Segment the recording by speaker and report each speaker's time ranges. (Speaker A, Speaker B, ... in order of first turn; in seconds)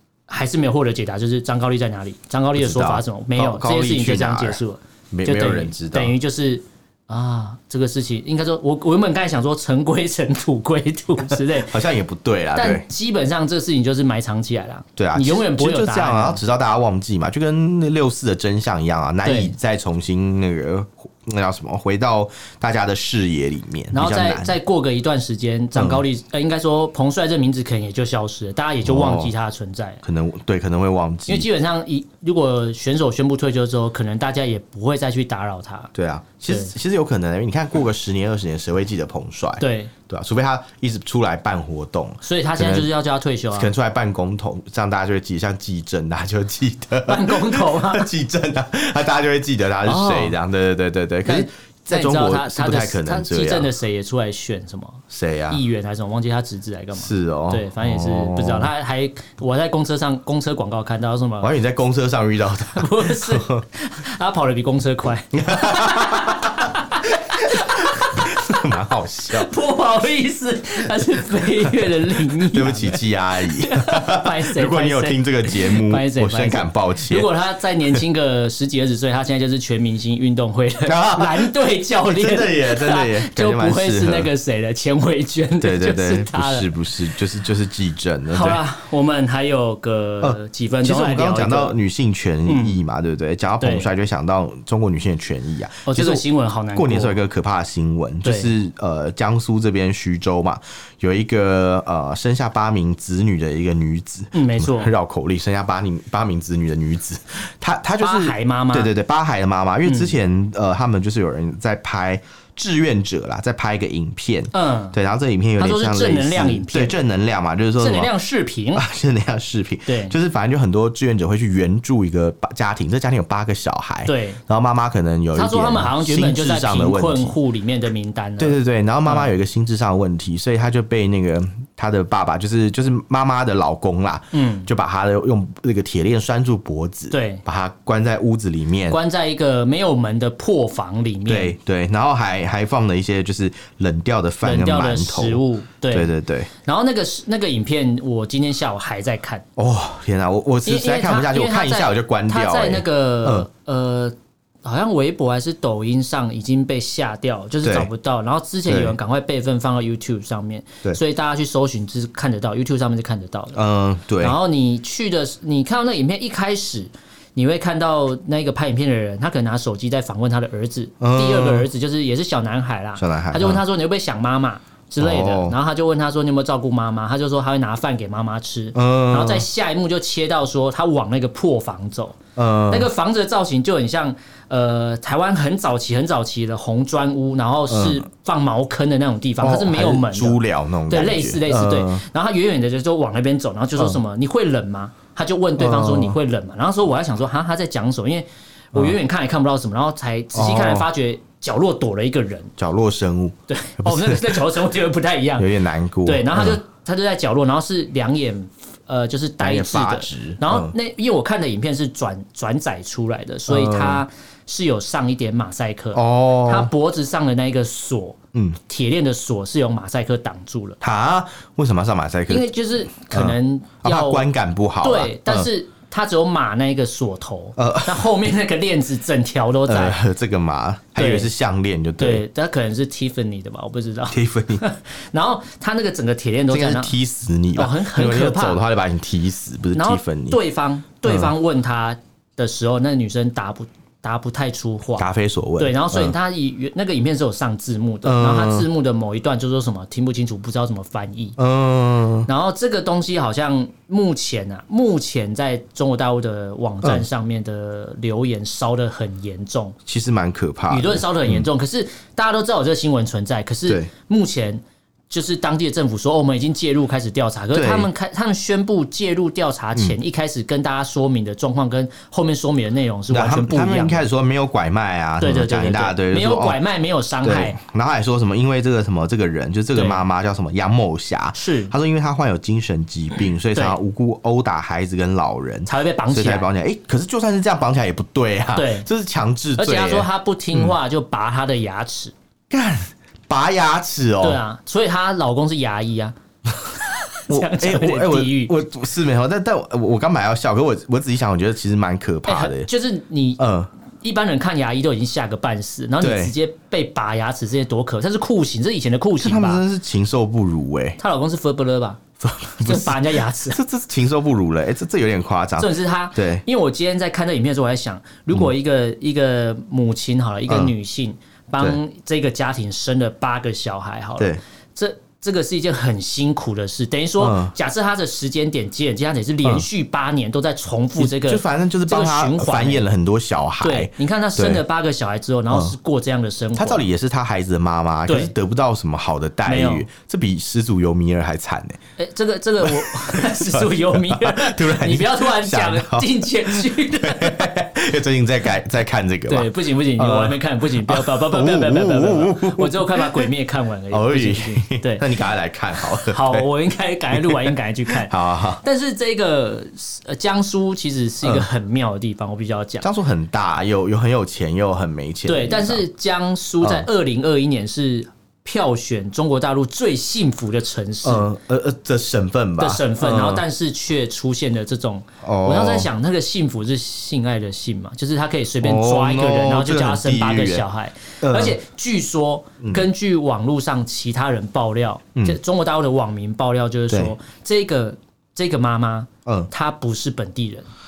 Speaker A: 0.3-11.8, 12.6-16.4, 19.2-19.5, 23.9-30.0, 31.3-35.9, 39.6-39.9, 42.2-43.7, 47.1-48.1, 49.9-50.4, 51.2-61.5, 62.7-68.6, 69.3-86.7, 88.3-91.8, 92.5-92.8, 93.6-93.9, 95.9-97.2, 98.2-98.5, 104.3-104.9, 108.0-108.9, 109.8-110.1, 114.5-115.0, 115.6-117.0, 117.8-118.8, 119.9-120.2, 124.1-124.4, 125.3-129.3, 134.3-134.7, 137.1-137.4, 138.9-141.6, 144.4-146.1, 146.6-149.4, 150.7-163.6, 164.2-202.5, 203.5-205.5, 206.1-220.8, 222.3-224.2, 224.8-230.0, 231.0-231.3, 232.0-236.9, 237.6-238.6, 239.7-245.1, 245.6-251.4, 252.3-259.8, 260.7-274.0, 275.2-277.6, 279.7-280.0, 281.4-281.7, 285.7-286.5, 288.6-288.9, 289.6-292.1, 294.2-296.1, 296.9-298.6, 302.3-303.4, 304.0-309.6, 311.0-312.0, 312.6-313.6, 315.6-332.9, 333.6-336.8, 338.1-338.3, 339.5-339.9, 342.0-347.6, 349.3-355.1, 355.8-362.9, 365.3-371.3, 372.6-390.7
Speaker B: 2.5-4.6, 5.1-6.2, 11.3-12.8, 15.0-24.6, 25.8-26.0, 28.8-29.3, 30.0-31.5, 35.9-42.9, 43.5-53.7, 55.1-55.6, 57.0-58.7, 61.4-63.6, 65.3-69.5, 71.6-77.3, 80.9-84.3, 85.6-88.6, 90.2-118.1, 118.8-127.3, 128.4-139.0, 141.3-146.5, 149.6-153.5, 157.6-157.9, 158.7-159.0, 163.5-164.4, 171.0-171.7, 173.0-173.6, 175.0-175.6, 178.8-179.5, 182.4-182.9, 187.7-188.1, 189.4-192.0, 195.6-196.2, 200.3-200.9, 202.6-204.4, 205.4-206.6, 209.4-210.7, 213.5-214.0, 215.9-216.7, 220.8-225.5, 227.6-228.1, 229.7-232.2, 234.1-234.6, 236.5-240.4, 241.1-241.3, 245.0-246.2, 248.0-248.7, 251.4-252.3, 259.9-261.5, 267.5-267.9, 273.1-276.6, 277.2-290.7, 292.5-294.4, 297.3-302.7, 303.4-303.7, 306.0-306.4, 309.2-311.0, 312.2-316.4, 327.2-327.5, 331.0-334.6, 335.5-335.8, 336.6-341.8, 342.6-353.3, 353.9-356.5, 357.1-358.6, 362.8-365.8, 366.6-366.9, 371.0-373.4, 375.2-375.9, 378.6-380.6, 381.2-381.6